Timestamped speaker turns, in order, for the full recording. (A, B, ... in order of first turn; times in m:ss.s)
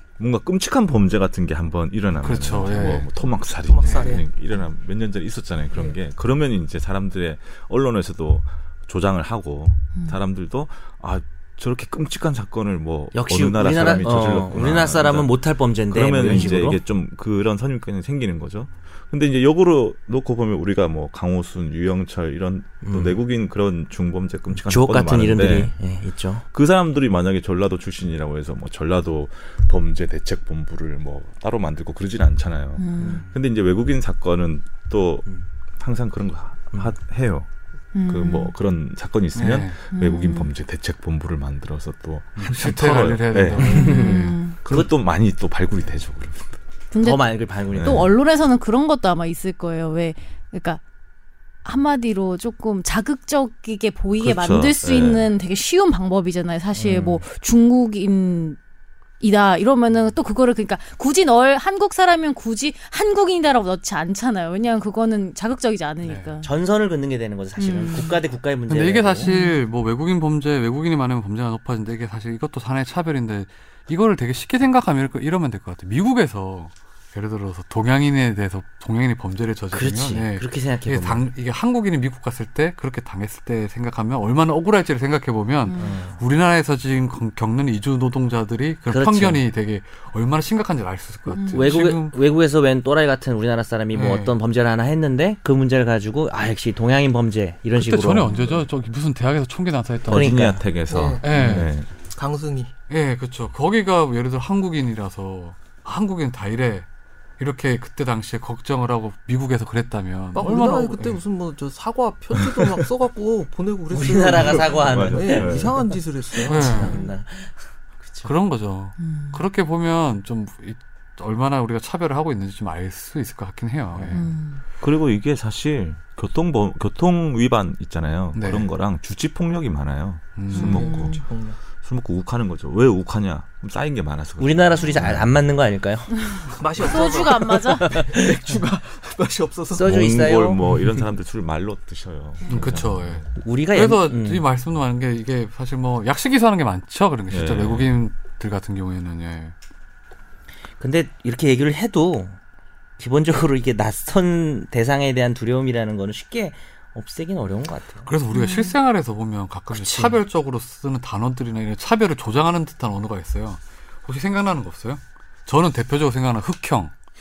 0:00.2-0:25.7 A
0:02.2-0:03.1 B
0:03.6-0:04.3 C
0:03.8-0:04.1 B
0:13.1-0:16.8 D
0:22.8-0:23.2 D
0:24.5-0:26.4 D
0:26.5-0:37.5 A
0:32.8-0:33.2 E
0:33.0-0:33.3 D
0:37.9-0:38.5 E
0:38.0-0:46.6 A
0:39.4-0:39.8 B
0:39.9-0:40.5 E
0:42.4-0:44.4 B
0:43.6-0:44.6 E
0:46.9-0:50.8 E
0:47.0-0:48.1 D
0:47.7-0:48.2 A
0:51.6-0:58.6 E
0:54.2-0:55.3 A
0:56.8-0:57.2 D
0:59.2-1:06.5 E
1:06.0-1:06.3 B
1:06.4-1:09.3 D
1:07.6-1:08.2 E
1:08.7-1:32.2 B
1:09.2-1:09.6 E
1:19.7-1:21.2 D
1:25.7-1:26.0 E
1:25.8-1:26.2 D
1:28.9-1:29.4 D
1:31.3-1:31.7 E
1:31.5-1:38.3 D
1:33.9-1:34.3 B
1:37.8-1:40.3 B
1:38.2-1:38.6 E
1:40.1-1:40.6 D
1:40.1-1:41.9 A
1:40.9-1:42.7 C
1:41.2-1:41.7 B
1:42.9-1:46.9 B
1:47.4-1:51.2 B
1:50.4-1:56.9 C
1:52.4-1:52.8 A
1:53.9-1:58.3 D
1:54.7-1:55.7 A
1:56.5-1:57.0 B
1:56.8-1:57.1 E
1:58.2-2:04.3 B
1:59.0-1:59.4 E
2:04.0-2:04.2 D
2:04.1-2:04.6 E
2:04.8-2:11.2 A
2:08.4-2:08.7 B
2:10.4-2:10.9 B
2:10.5-2:11.2 E
2:10.5-2:11.6 C
2:11.8-2:15.3 A
2:14.4-2:18.2 D
2:16.3-2:18.0 E
2:16.5-2:20.1 C
2:19.7-2:20.6 D
2:19.8-2:23.3 A
2:22.4-2:22.8 E
2:22.5-2:29.5 B
2:23.4-2:24.4 D
2:27.3-2:27.9 A
2:30.8-2:32.4 D
2:33.0-2:38.1 D
2:38.1-2:46.9 B
2:38.3-2:38.8 E
2:39.7-2:40.2 D